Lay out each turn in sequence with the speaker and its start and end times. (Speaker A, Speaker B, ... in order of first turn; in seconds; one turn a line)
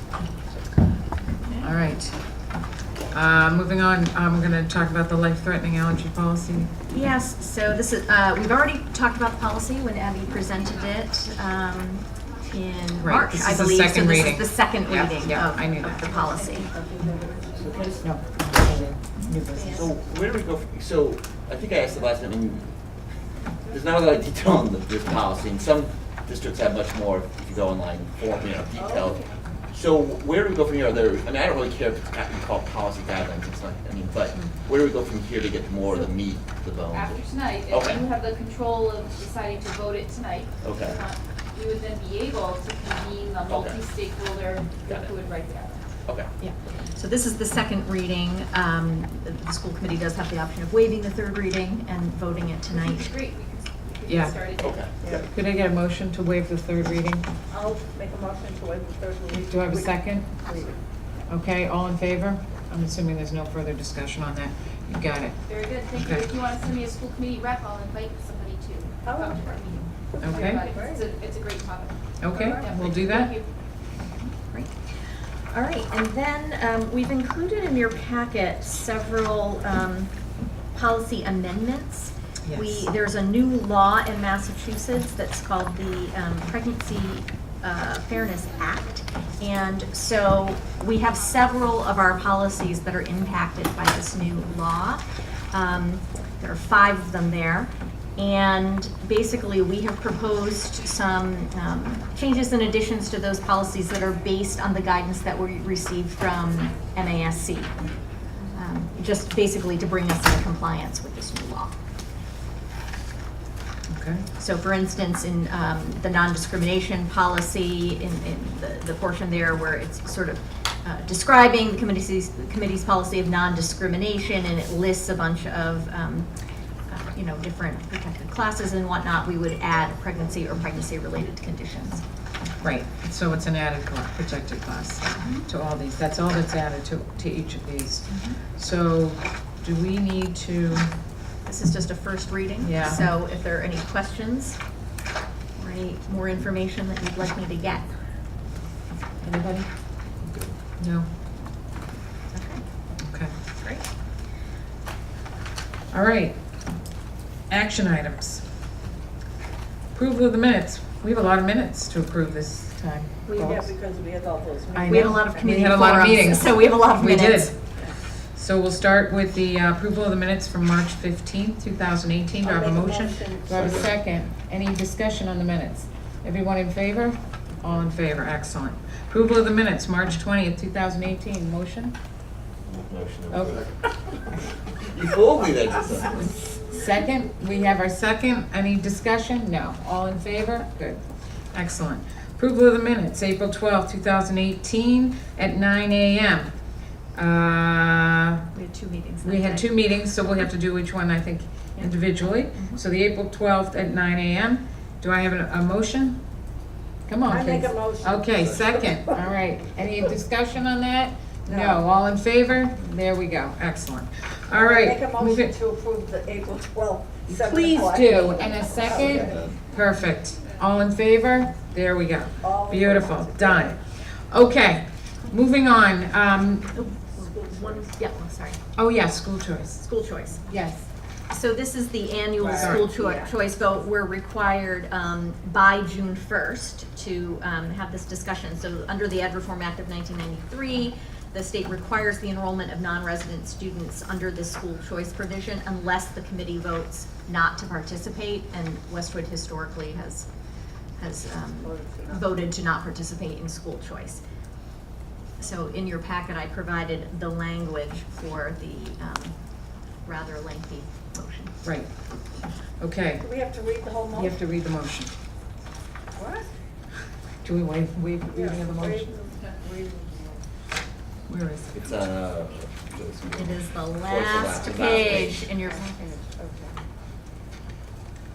Speaker A: 1.6-2.1
Speaker A: 3.1-6.7
Speaker B: 6.9-16.7
Speaker A: 13.0-16.1
Speaker C: 16.7-17.9
Speaker D: 17.6-18.0
Speaker A: 18.0-19.9
Speaker D: 19.7-22.7
Speaker D: 23.7-29.2
Speaker C: 28.8-29.1
Speaker D: 29.7-38.1
Speaker E: 36.9-45.9
Speaker D: 40.6-41.0
Speaker D: 43.5-43.8
Speaker D: 44.9-45.1
Speaker D: 46.1-46.3
Speaker B: 46.4-53.1
Speaker E: 52.7-54.9
Speaker A: 54.1-54.4
Speaker D: 54.6-55.2
Speaker C: 55.0-55.3
Speaker A: 55.3-57.2
Speaker C: 57.5-60.8
Speaker A: 59.5-60.3
Speaker A: 61.3-65.4
Speaker E: 65.5-73.5
Speaker A: 65.9-66.2
Speaker C: 69.1-69.5
Speaker C: 70.2-71.0
Speaker A: 70.2-70.6
Speaker A: 72.2-73.3
Speaker C: 72.3-72.7
Speaker B: 74.1-74.8
Speaker B: 75.5-80.1
Speaker B: 80.7-107.7
Speaker A: 82.5-82.9
Speaker B: 108.5-111.8
Speaker A: 113.9-114.2
Speaker B: 114.4-126.3
Speaker B: 126.9-132.0
Speaker A: 132.6-140.9
Speaker B: 135.1-135.5
Speaker B: 138.1-138.4
Speaker B: 141.5-144.6
Speaker A: 142.6-143.0
Speaker B: 145.6-147.9
Speaker A: 149.2-149.7
Speaker D: 150.2-150.5
Speaker A: 150.8-151.1
Speaker B: 152.3-152.6
Speaker A: 153.1-153.3
Speaker B: 153.6-153.8
Speaker A: 155.9-156.4
Speaker A: 157.5-158.4
Speaker A: 159.9-163.7
Speaker C: 163.3-165.2
Speaker A: 164.7-167.6
Speaker B: 164.9-167.6
Speaker A: 168.3-181.9
Speaker C: 172.4-173.9
Speaker D: 173.6-173.9
Speaker D: 182.7-183.7
Speaker A: 183.3-183.6
Speaker D: 184.8-186.4
Speaker A: 186.5-191.0
Speaker A: 191.5-196.5
Speaker A: 197.2-198.4
Speaker B: 198.5-199.7
Speaker A: 199.2-206.2
Speaker B: 202.6-202.8
Speaker A: 207.1-215.5
Speaker C: 207.3-209.1
Speaker C: 211.5-211.8
Speaker C: 214.5-219.5
Speaker A: 217.3-223.8
Speaker D: 218.9-219.6
Speaker C: 222.4-223.8
Speaker A: 224.3-226.7
Speaker B: 226.7-228.6
Speaker C: 227.2-227.8
Speaker A: 228.8-229.9
Speaker B: 229.8-230.5
Speaker A: 230.5-230.9
Speaker B: 231.3-250.3
Speaker C: 232.4-233.3
Speaker A: 232.5-232.9
Speaker B: 251.0-254.2
Speaker C: 251.6-252.3
Speaker B: 255.4-259.4
Speaker B: 260.0-261.6
Speaker A: 262.8-263.3
Speaker C: 263.2-264.4
Speaker A: 264.1-265.1
Speaker C: 266.1-266.5
Speaker A: 267.4-269.1
Speaker C: 268.3-270.4
Speaker A: 271.3-271.8
Speaker D: 271.7-275.5
Speaker B: 273.4-276.1
Speaker C: 275.7-276.8